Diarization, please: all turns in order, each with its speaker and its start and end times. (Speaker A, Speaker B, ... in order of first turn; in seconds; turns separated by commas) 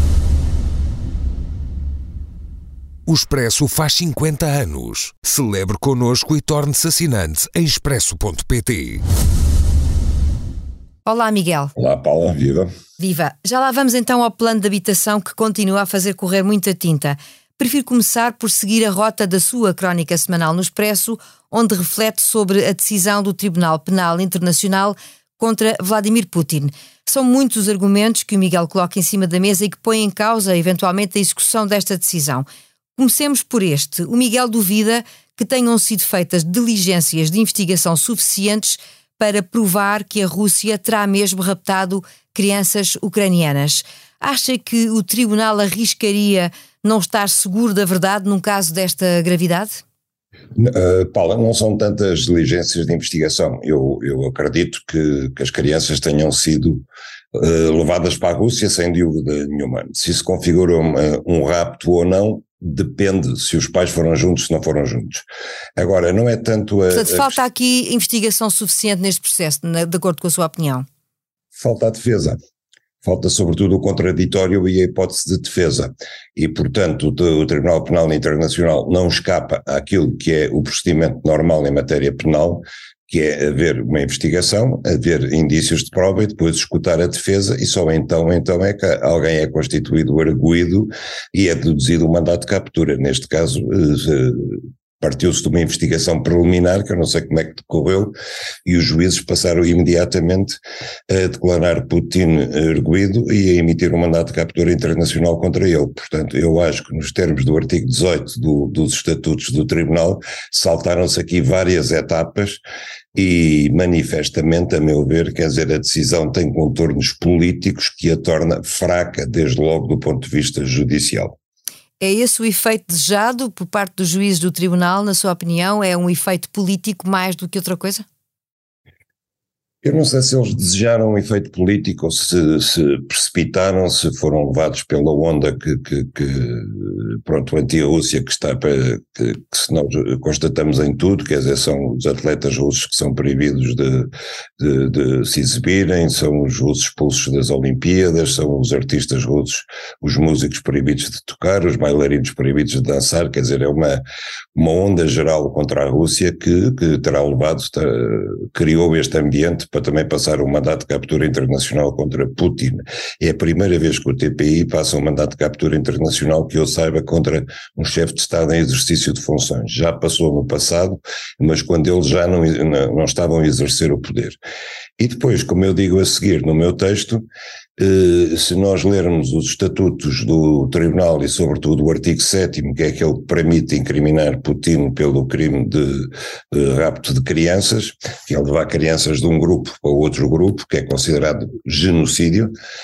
Speaker A: 3.1-9.0, Speaker B: 11.0-11.7, Speaker C: 11.8-12.7, Speaker B: 13.0-32.5, Speaker B: 33.0-49.8, Speaker C: 50.5-65.2, Speaker C: 65.8-67.4, Speaker B: 66.9-70.8, Speaker C: 71.5-72.4, Speaker C: 73.0-98.1, Speaker C: 98.7-112.6, Speaker C: 113.1-121.3, Speaker B: 122.0-128.0, Speaker C: 129.8-154.0, Speaker C: 154.5-174.4, Speaker C: 175.0-177.2, Speaker C: 177.8-192.5